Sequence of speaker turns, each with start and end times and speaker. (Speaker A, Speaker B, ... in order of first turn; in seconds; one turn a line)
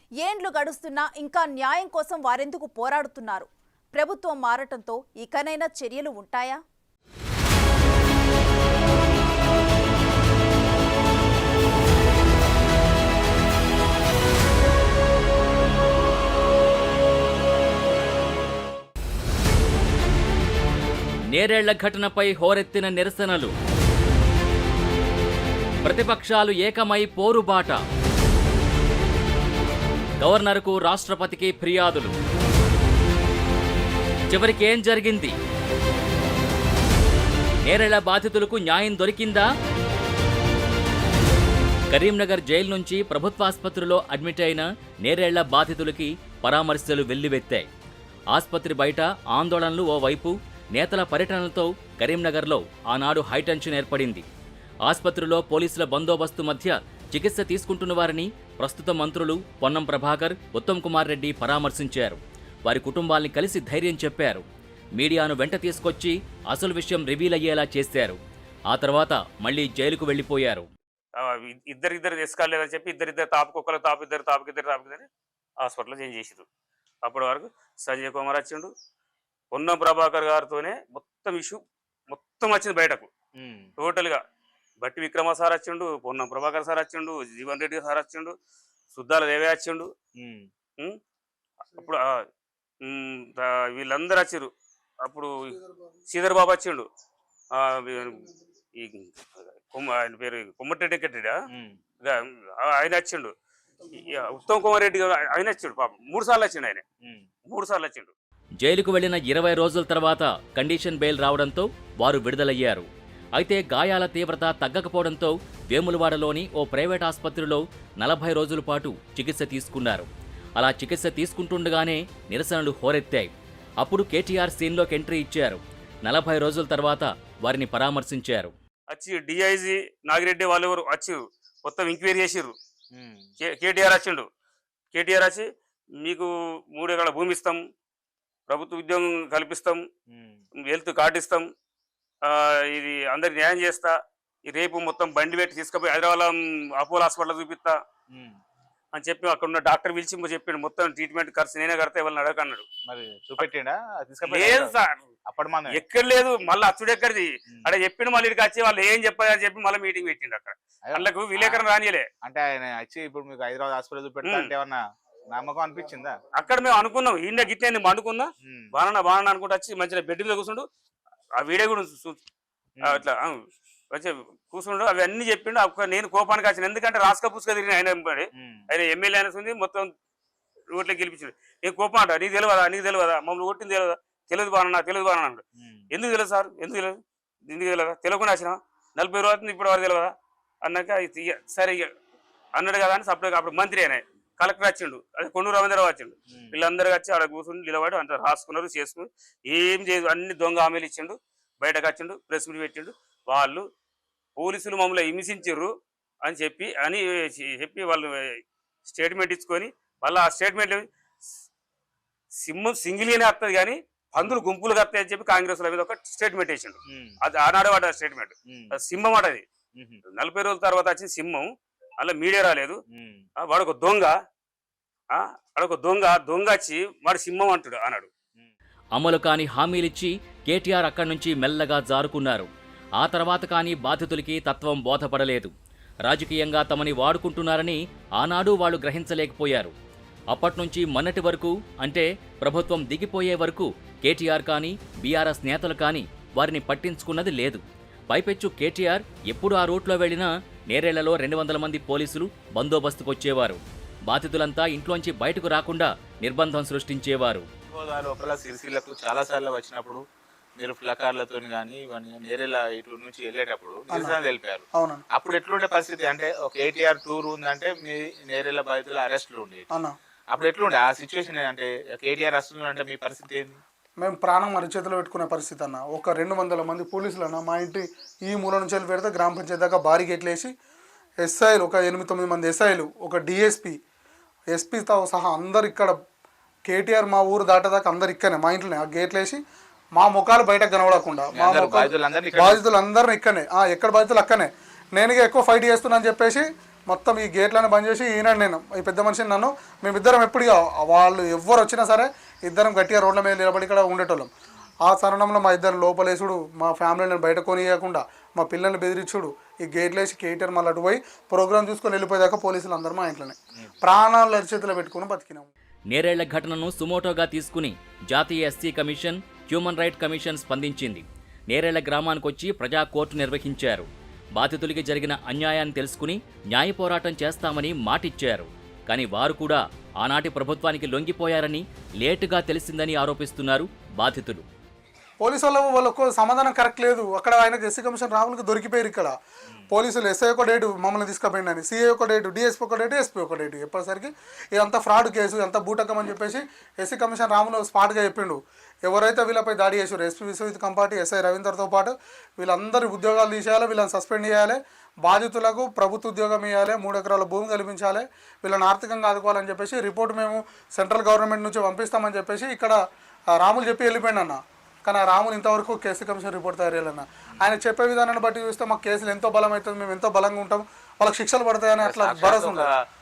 Speaker A: 0.2-6.6
Speaker B: 21.3-23.5
Speaker B: 25.8-27.8
Speaker B: 30.2-32.1
Speaker B: 34.3-35.4
Speaker B: 37.6-39.5
Speaker B: 41.9-47.7
Speaker B: 48.3-54.2
Speaker B: 54.9-64.4
Speaker B: 65.0-68.2
Speaker B: 68.7-70.7
Speaker C: 71.2-75.1
Speaker C: 75.6-76.5
Speaker C: 77.0-78.7
Speaker C: 79.5-83.1
Speaker D: 83.4-83.7
Speaker C: 83.8-84.2
Speaker C: 84.8-88.3
Speaker C: 89.0-89.9
Speaker D: 90.2-90.5
Speaker C: 91.7-92.2
Speaker C: 92.8-94.5
Speaker C: 95.1-95.5
Speaker C: 96.1-96.9
Speaker C: 97.6-99.1
Speaker C: 99.7-101.3
Speaker C: 102.0-103.3
Speaker C: 104.0-106.8
Speaker C: 107.5-108.1
Speaker B: 108.6-120.1
Speaker B: 120.6-128.5
Speaker C: 128.9-132.5
Speaker D: 132.9-133.3
Speaker C: 133.4-134.3
Speaker C: 134.9-135.5
Speaker C: 136.0-137.6
Speaker C: 138.5-139.8
Speaker D: 140.1-140.4
Speaker C: 140.7-141.5
Speaker C: 142.2-143.9
Speaker C: 144.5-147.8
Speaker C: 148.9-152.7
Speaker D: 152.9-154.7
Speaker C: 154.3-154.9
Speaker D: 155.3-155.8
Speaker C: 155.7-162.1
Speaker D: 160.9-161.6
Speaker D: 162.2-164.8
Speaker C: 164.2-164.5
Speaker D: 165.3-166.2
Speaker C: 166.3-170.7
Speaker C: 171.4-172.2
Speaker D: 172.8-173.0
Speaker C: 172.9-173.4
Speaker C: 173.9-179.9
Speaker C: 180.7-190.1
Speaker D: 185.6-185.9
Speaker C: 190.6-191.9
Speaker C: 192.6-203.7
Speaker C: 204.4-205.7
Speaker C: 206.2-210.9
Speaker C: 212.4-219.4
Speaker D: 216.9-217.2
Speaker D: 218.5-218.8
Speaker D: 219.8-220.0
Speaker C: 220.1-221.5
Speaker C: 222.0-222.8
Speaker D: 222.9-223.2
Speaker C: 223.4-224.1
Speaker C: 225.1-228.1
Speaker B: 228.9-235.5
Speaker B: 236.1-239.7
Speaker B: 240.3-257.4
Speaker D: 257.7-260.0
Speaker D: 260.6-269.7
Speaker E: 263.9-264.2
Speaker E: 264.7-265.0
Speaker D: 270.3-273.6
Speaker E: 274.0-280.5
Speaker E: 281.2-283.8
Speaker E: 284.5-285.9
Speaker E: 286.7-289.4
Speaker E: 290.0-304.3
Speaker D: 291.3-292.6
Speaker E: 304.9-315.5
Speaker B: 315.9-334.4
Speaker E: 335.2-339.1
Speaker E: 339.7-362.8
Speaker E: 363.4-372.7
Speaker D: 371.8-372.8